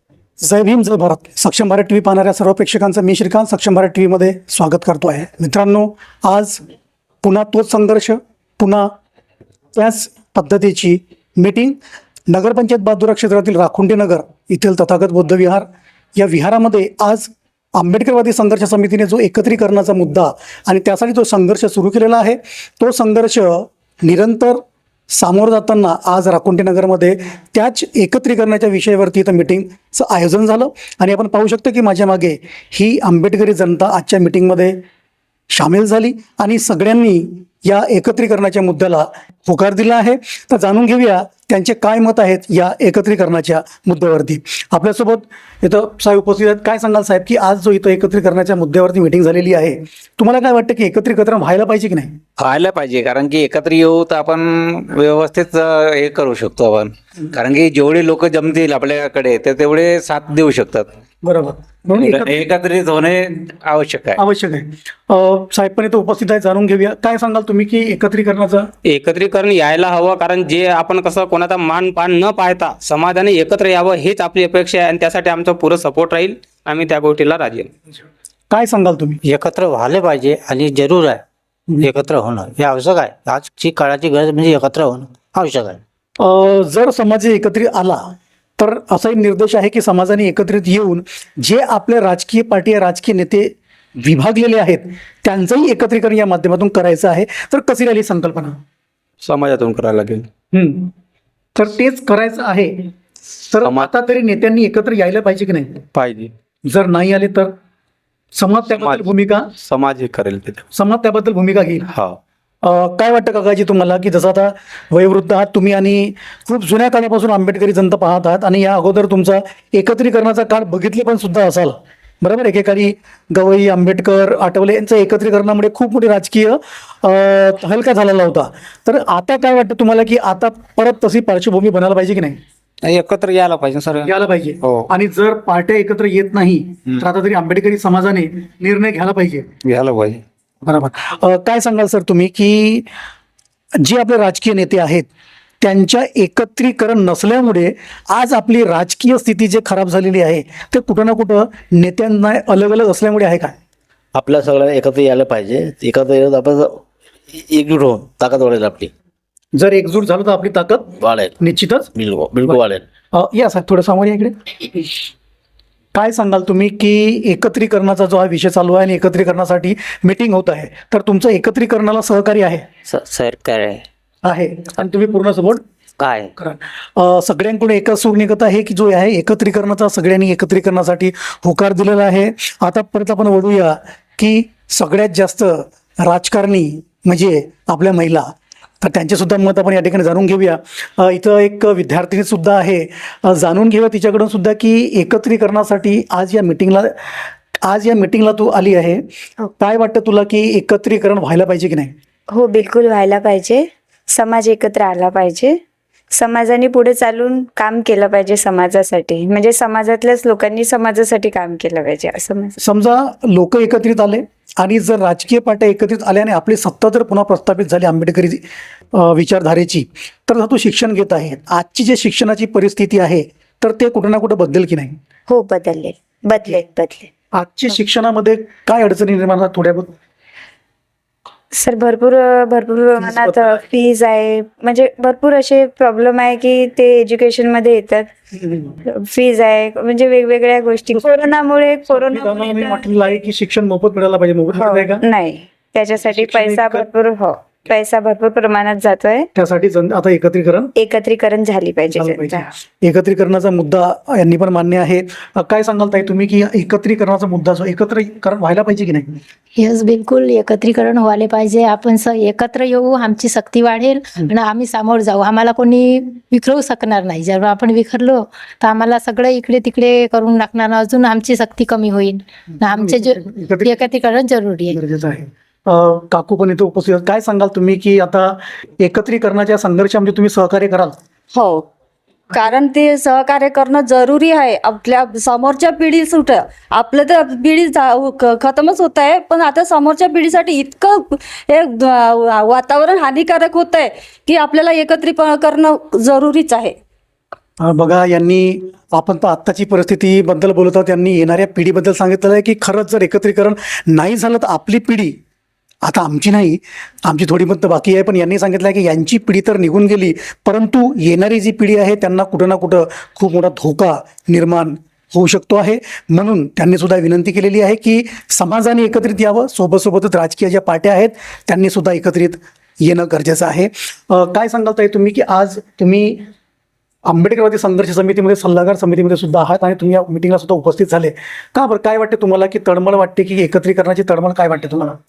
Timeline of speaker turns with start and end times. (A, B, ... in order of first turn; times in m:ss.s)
0:00.4-0:06.6 A
0:07.2-0:08.9 A
0:09.8-0:11.8 A
0:12.3-0:15.6 A
0:16.2-0:24.6 A
0:25.1-0:34.8 A
0:35.5-0:52.1 A
0:52.4-1:00.9 B
1:01.2-1:02.4 A
1:01.9-1:04.2 B
1:04.2-1:08.7 A
1:08.8-1:17.7 C
1:18.5-1:19.2 A
1:19.2-1:21.2 D
1:21.8-1:25.8 D
1:26.2-1:38.6 A
1:39.3-1:39.9 C
1:39.3-1:40.2 B
1:40.5-1:40.9 A
1:41.6-1:42.9 A
1:43.5-1:45.8 A
1:43.6-1:43.9 B
1:45.9-1:46.3 B
1:46.6-1:47.5 A
1:48.3-1:49.5 A
1:48.8-1:49.0 B
1:49.6-1:50.6 B
1:50.7-1:51.8 A
1:52.6-2:12.4 A
2:12.8-2:14.1 C
2:14.0-2:19.5 A
2:19.6-2:20.2 C
2:20.6-2:22.9 A
2:23.8-2:25.1 A
2:25.6-2:33.5 A
2:34.2-2:36.8 E
2:37.3-2:38.9 E
2:39.5-2:41.9 A
2:41.0-2:41.3 E
2:41.9-2:42.8 E
2:43.1-2:44.4 A
2:45.9-2:52.7 A
2:52.9-2:53.8 D
2:54.2-2:55.6 A
2:56.0-2:56.3 D
2:56.4-3:08.3 A
3:08.8-3:16.9 A
3:17.6-3:19.0 A
3:19.6-3:21.9 A
3:22.3-3:25.5 F
3:26.2-3:32.6 F
3:32.6-3:38.4 A
3:38.9-3:45.0 A
3:45.3-3:47.1 F
3:47.3-3:49.9 A
3:51.5-3:58.1 F
3:53.0-3:53.5 A
3:58.3-3:58.8 A
3:58.9-4:02.9 F
4:01.9-4:05.0 A
4:04.6-4:09.3 F
4:06.0-4:06.9 A
4:09.3-4:10.7 A
4:10.8-4:12.5 F
4:11.9-4:19.2 A
4:19.6-4:34.8 G
4:32.7-4:33.8 A
4:34.7-4:41.0 A
4:41.4-4:41.6 H
4:42.3-4:56.7 H
4:57.6-5:05.1 A
5:05.8-5:26.2 A
5:27.0-5:35.0 A